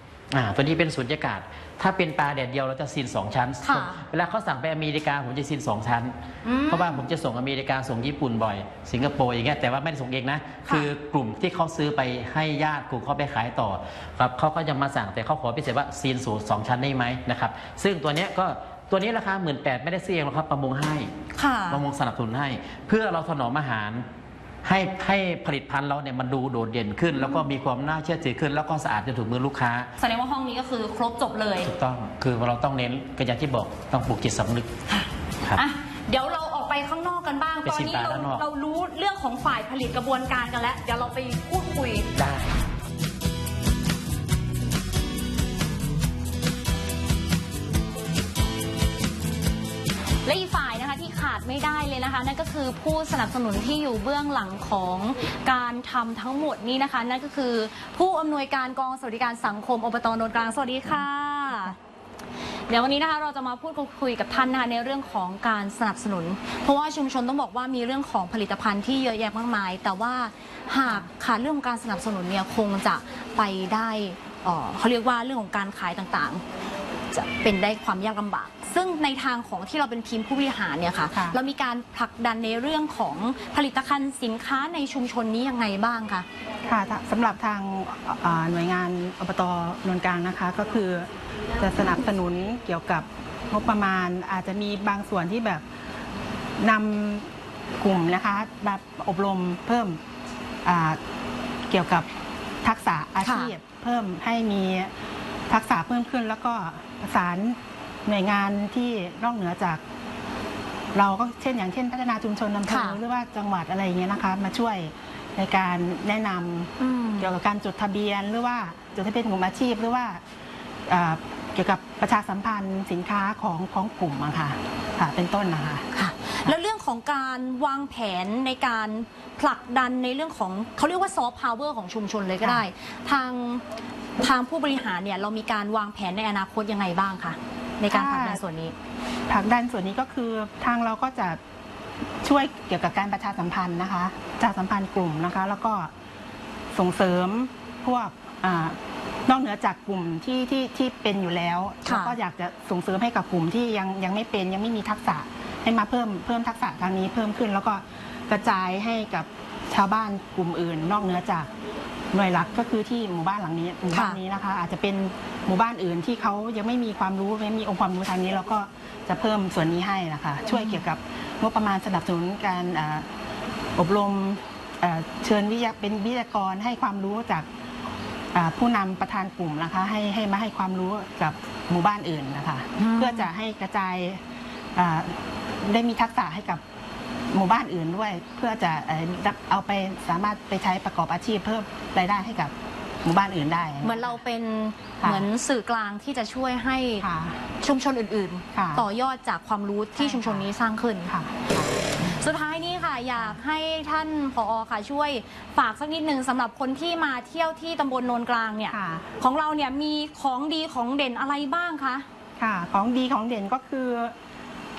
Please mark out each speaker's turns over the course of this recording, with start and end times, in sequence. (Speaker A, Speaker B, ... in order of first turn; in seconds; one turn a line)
Speaker A: 0.3-6.1
Speaker B: 3.6-4.0
Speaker B: 6.4-7.0
Speaker A: 6.7-21.1
Speaker B: 10.6-10.9
Speaker B: 21.3-21.8
Speaker A: 21.7-24.1
Speaker A: 24.6-29.9
Speaker B: 27.1-27.4
Speaker B: 30.0-31.7
Speaker A: 31.6-34.7
Speaker B: 34.9-42.1
Speaker A: 37.6-38.4
Speaker A: 42.1-42.6
Speaker B: 50.2-61.8
Speaker B: 62.7-76.4
Speaker B: 77.1-86.2
Speaker C: 81.1-81.4
Speaker C: 86.7-95.6
Speaker C: 96.6-100.0
Speaker C: 100.6-101.0
Speaker C: 101.7-102.1
Speaker C: 102.6-104.9
Speaker B: 103.2-103.5
Speaker C: 105.5-109.8
Speaker C: 110.9-120.2
Speaker B: 112.7-113.0
Speaker B: 116.8-117.3
Speaker C: 120.9-125.8
Speaker B: 125.9-133.6
Speaker B: 134.2-138.7
Speaker C: 137.9-138.4
Speaker C: 139.3-141.4
Speaker C: 142.2-145.9
Speaker C: 146.7-161.5
Speaker B: 151.8-152.2
Speaker C: 162.1-173.1
Speaker B: 163.9-164.2
Speaker B: 170.5-170.8
Speaker C: 173.8-177.5
Speaker C: 178.3-184.2
Speaker B: 182.8-183.3
Speaker C: 184.8-186.6
Speaker C: 187.3-194.2
Speaker B: 193.8-197.1
Speaker C: 195.0-195.2
Speaker C: 197.0-197.4
Speaker B: 197.6-201.1
Speaker C: 198.5-198.8
Speaker C: 200.0-200.5
Speaker C: 201.1-202.1
Speaker B: 202.0-212.1
Speaker C: 208.7-209.1
Speaker C: 212.4-214.1